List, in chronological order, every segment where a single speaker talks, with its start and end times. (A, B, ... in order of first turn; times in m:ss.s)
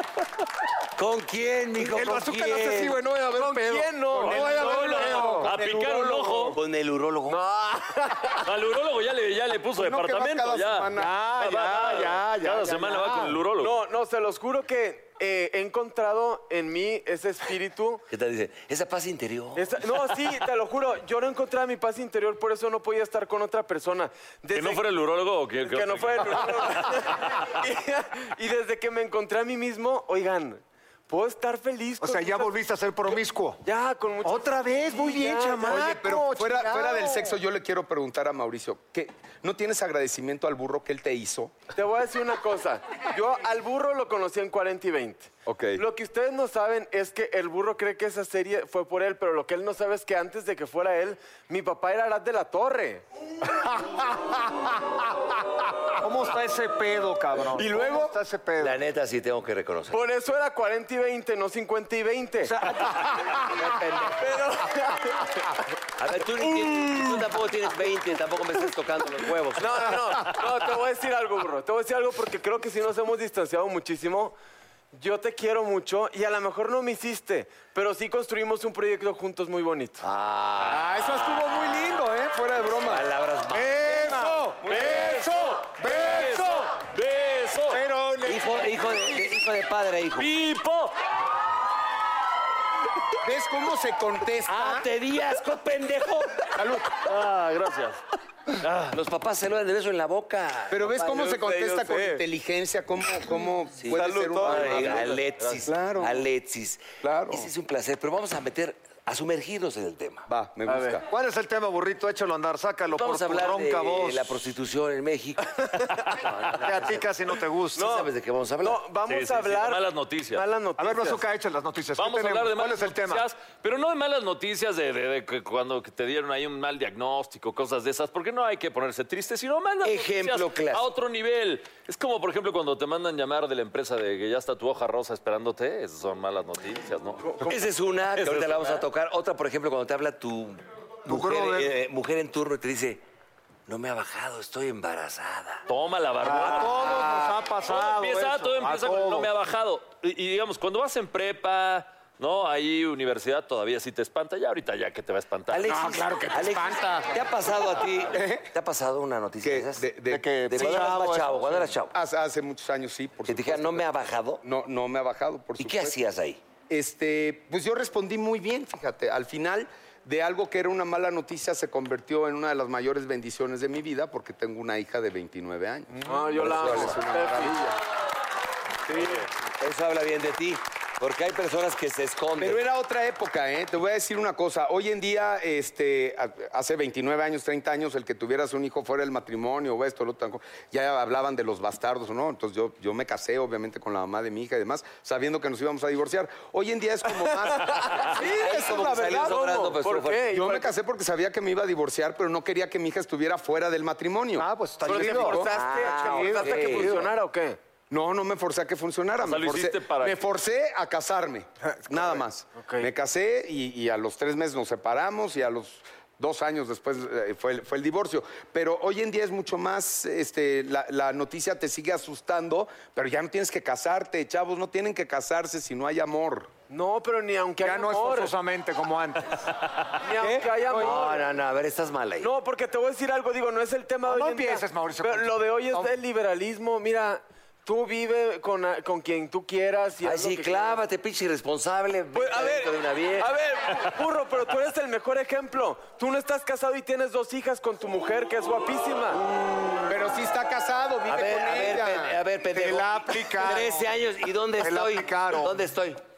0:01.0-0:03.0 A
0:01.8-0:05.5 B
0:03.3-0:05.4 C
0:04.2-0:06.6 D
0:05.4-0:06.6 E
0:06.5-0:07.4 A
0:07.3-0:08.5 C
0:08.4-0:13.8 E
0:09.8-0:11.2 D
0:10.9-0:13.4 B
0:13.6-0:18.0 C
0:18.1-0:19.6 A
0:19.6-0:24.8 C
0:24.5-0:27.4 E
0:25.6-0:32.6 C
0:32.0-0:33.6 B
0:33.1-0:35.9 C
0:34.2-0:37.3 B
0:35.7-0:41.6 D
0:41.7-0:53.0 C
0:45.5-0:45.8 D
0:56.0-0:58.8 B
0:57.6-0:58.2 D
0:58.6-1:00.0 A
0:59.9-1:03.3 C
1:02.4-1:03.7 B
1:03.6-1:04.1 A
1:04.2-1:05.2 C
1:06.0-1:09.9 A
1:06.6-1:07.0 C
1:09.6-1:14.4 C
1:14.9-1:20.0 C
1:20.0-1:20.9 A
1:20.7-1:23.1 D
1:22.8-1:24.1 A
1:23.5-1:26.7 B
1:23.9-1:25.0 D
1:24.7-1:27.8 E
1:27.7-1:29.2 B
1:28.2-1:30.3 A
1:30.2-1:31.0 E
1:33.2-1:34.9 D
1:34.5-1:36.5 A
1:36.5-1:37.0 D
1:37.0-1:39.0 E
1:38.9-1:41.3 A
1:40.7-1:46.3 D
1:41.2-1:42.2 C
1:43.8-1:50.3 A
1:43.9-1:45.2 C
1:47.0-1:47.5 D
1:50.3-1:51.0 D
1:50.7-1:51.0 C
1:51.1-1:54.4 B
1:53.0-1:55.5 A
1:55.8-1:56.1 C
1:56.1-1:57.1 A
1:56.6-1:58.0 B
1:57.8-1:58.8 A
1:57.8-1:58.1 C
1:58.6-2:01.3 C
1:59.1-2:00.4 E
2:00.8-2:03.2 B
2:02.0-2:17.6 E
2:09.8-2:10.8 A
2:17.4-2:23.0 A
2:18.2-2:18.8 E
2:21.1-2:21.7 B
2:23.7-2:25.6 A
2:25.7-2:27.1 E
2:26.2-2:29.3 B
2:26.3-2:27.4 C
2:27.6-2:35.7 E
2:35.5-2:42.0 A
2:35.6-2:37.2 D
2:38.1-2:38.5 D
2:39.4-2:40.4 D
2:40.1-2:41.7 B
2:41.9-2:43.9 D
2:43.3-2:44.4 A
2:44.4-2:46.0 D
2:45.6-2:46.4 A
2:46.7-2:57.8 D
2:55.9-2:57.7 C
2:58.9-2:59.2 C
2:59.6-3:02.6 A
3:02.4-3:19.6 D
3:17.2-3:20.7 C
3:18.2-3:20.3 A
3:20.3-3:25.5 D
3:24.4-3:26.9 B
3:24.8-3:27.6 C
3:25.4-3:27.1 A
3:27.9-3:46.5 D
3:29.2-3:30.2 E
3:32.5-3:32.9 C
3:46.7-3:48.3 C
3:47.6-3:49.4 B
3:50.0-3:51.3 C
3:50.2-3:51.0 B
3:50.8-3:52.3 A
3:52.2-4:00.8 C
3:54.0-3:55.9 B
4:00.0-4:03.3 A
4:02.1-4:09.2 C
4:09.9-4:12.2 D
4:11.1-4:16.0 A
4:12.5-4:13.9 B
4:14.6-4:15.6 B